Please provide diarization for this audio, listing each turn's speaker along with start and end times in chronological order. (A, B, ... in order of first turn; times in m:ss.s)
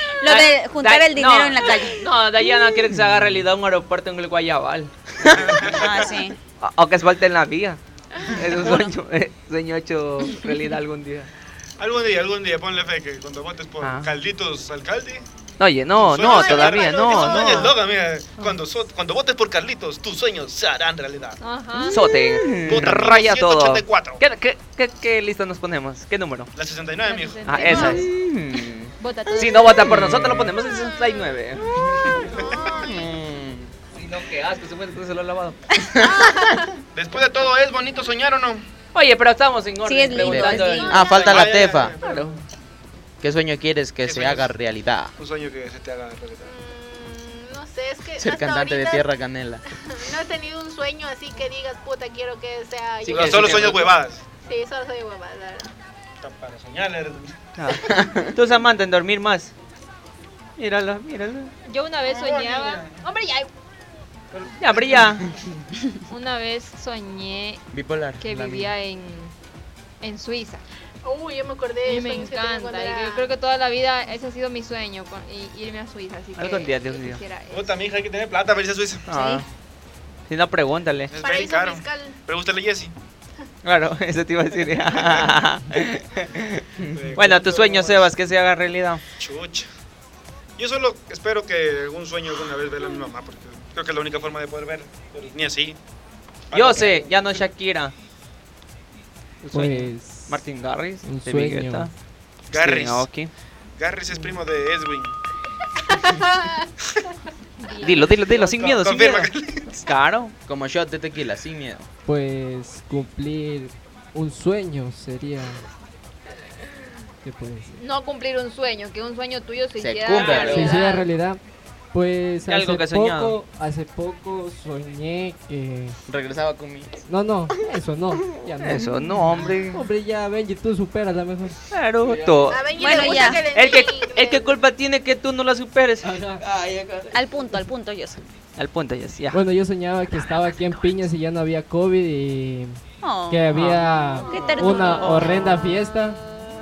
0:00.2-0:02.0 A
0:00.2-0:05.9 B
0:01.6-0:02.0 C
0:05.3-0:06.1 D
0:05.7-0:06.4 A
0:06.6-0:11.3 B
0:08.6-0:08.9 A
0:10.2-0:10.5 A
0:11.8-0:15.2 D
0:13.8-0:14.1 B
0:15.6-0:17.8 B
0:16.0-0:21.4 D
0:16.2-0:17.6 C
0:21.4-0:22.0 E
0:21.9-0:26.5 B
0:21.9-0:23.0 F
0:22.6-0:24.2 D
0:26.5-0:27.8 D
0:27.0-0:28.1 E
0:27.4-0:28.1 B
0:27.6-0:28.9 F
0:29.0-0:30.1 E
0:29.4-0:32.3 B
0:29.8-0:30.5 F
0:30.7-0:31.4 C
0:32.1-0:33.1 C
0:32.3-0:32.6 D
0:32.5-0:33.7 F
0:33.9-0:35.6 B
0:35.9-0:36.6 F
0:36.0-0:36.8 C
0:36.9-0:38.6 D
0:38.9-0:42.4 B
0:39.8-0:41.2 A
0:40.2-0:42.0 F
0:41.2-0:42.4 D
0:43.2-0:45.1 F
0:44.0-0:44.5 D
0:45.2-0:46.5 D
0:46.4-0:49.0 C
0:48.2-0:49.6 F
0:49.8-0:53.9 C
0:53.0-0:53.8 B
0:53.1-0:54.3 D
0:54.4-0:55.7 C
0:56.2-0:57.4 D
0:57.6-0:59.5 B
0:57.9-0:58.3 F
1:00.6-1:01.5 B
1:01.6-1:03.5 E
1:02.1-1:03.0 D
1:04.3-1:05.2 D
1:04.6-1:05.3 B
1:06.1-1:07.6 E
1:07.7-1:08.7 F
1:08.2-1:09.3 E
1:10.0-1:10.6 E
1:11.0-1:13.3 C
1:11.8-1:17.8 E
1:16.4-1:17.2 B
1:17.5-1:19.1 D
1:19.1-1:19.4 B
1:19.1-1:19.4 A
1:20.3-1:21.2 B
1:21.1-1:22.9 D
1:21.2-1:22.2 C
1:23.6-1:29.0 B
1:24.9-1:25.3 D
1:26.8-1:27.2 F
1:26.9-1:28.1 D
1:29.2-1:29.7 D
1:30.6-1:35.8 D
1:36.5-1:37.1 D
1:36.5-1:37.9 B
1:39.4-1:41.9 B
1:39.5-1:40.4 G
1:41.0-1:41.9 G
1:42.5-1:43.3 B
1:42.5-1:43.1 D
1:43.8-1:45.1 D
1:46.0-1:46.6 C
1:47.6-1:48.4 E
1:47.8-1:50.3 B
1:48.4-1:49.7 D
1:50.4-1:51.9 F
1:52.0-1:55.6 G
1:57.2-1:57.8 G
1:57.8-2:01.0 E
1:59.8-2:00.8 F
2:00.1-2:00.8 B
2:00.4-2:01.4 G
2:01.9-2:06.0 G
2:02.5-2:03.3 B
2:06.1-2:07.1 F
2:07.1-2:11.6 G
2:08.6-2:09.8 B
2:11.7-2:17.0 B
2:12.0-2:12.5 F
2:12.5-2:14.5 C
2:12.8-2:13.5 A
2:16.0-2:16.4 G
2:17.1-2:18.2 A
2:18.6-2:19.4 B
2:19.3-2:22.8 G
2:20.3-2:20.8 A
2:23.0-2:23.5 A
2:23.3-2:26.2 G
2:23.5-2:25.4 B
2:24.2-2:25.5 A